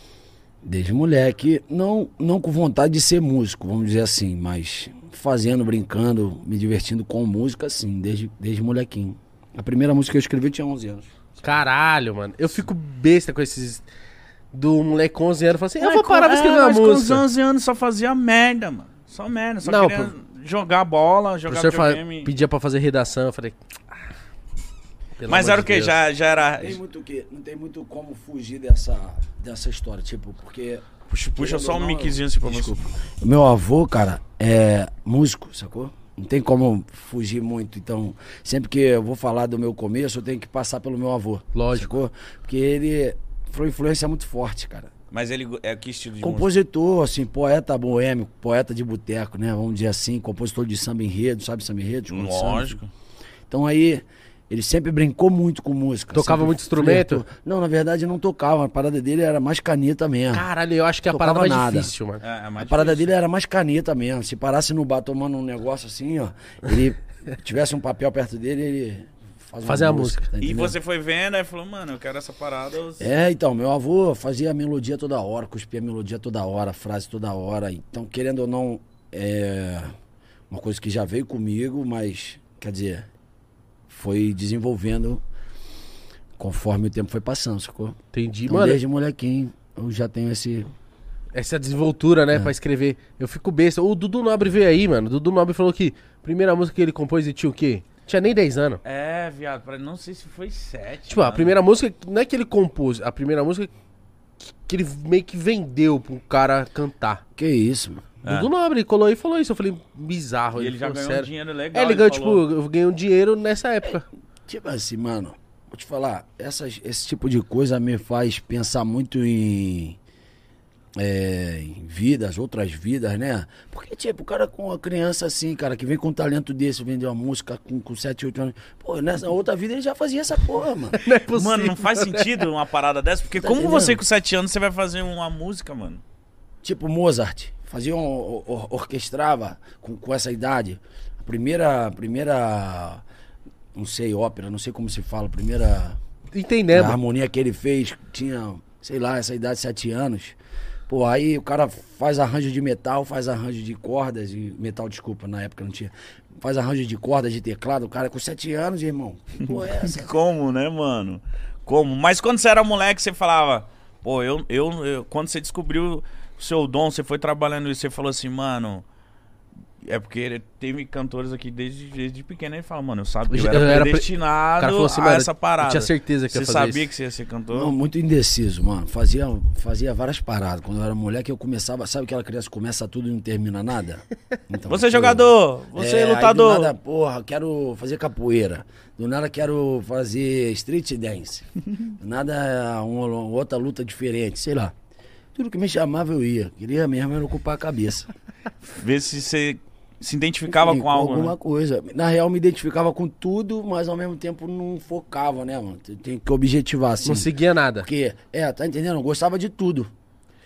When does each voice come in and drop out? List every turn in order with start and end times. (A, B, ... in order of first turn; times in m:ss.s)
0:00.6-0:11.1 A
0:11.4-0:13.8 B
0:14.5-0:17.2 B
0:15.8-0:22.3 C
0:19.6-0:20.1 B
0:21.5-0:23.6 B
0:25.2-0:26.0 B
0:25.3-0:26.8 C
0:26.5-0:44.9 A
0:31.1-0:32.8 C
0:41.5-0:41.9 B
0:45.1-0:46.5 C
0:46.2-0:52.8 A
0:52.1-0:52.9 C
0:53.5-1:00.5 A
0:56.1-0:57.2 B
1:00.3-1:02.2 B
1:01.1-1:01.9 A
1:02.2-1:03.1 C
1:02.6-1:10.8 A
1:09.6-1:10.3 B
1:10.4-1:13.1 C
1:13.0-1:19.9 A
1:20.5-1:23.1 A
1:23.9-1:25.2 A
1:26.4-1:30.7 A
1:28.1-1:28.8 B
1:31.3-1:38.8 B
1:38.8-1:41.6 C
1:41.1-1:43.7 B
1:44.6-1:47.2 B
1:47.4-1:48.1 A
1:48.2-1:48.5 C
1:48.3-1:54.0 B
1:50.5-1:52.4 C
1:54.5-2:00.0 A
2:01.0-2:11.0 A
2:10.9-2:12.4 B
2:11.3-2:16.0 C
2:13.3-2:14.0 A
2:16.6-2:23.0 A
2:23.7-2:26.0 A
2:26.3-2:27.0 B
2:26.7-2:30.4 A
2:30.9-2:40.1 A
2:39.8-2:48.8 C
2:49.8-2:57.7 C
2:53.3-2:56.9 B
2:57.5-3:14.7 A
3:04.6-3:06.7 C
3:15.3-3:18.1 A
3:18.7-3:21.3 C
3:20.5-3:29.9 A
3:27.0-3:27.9 B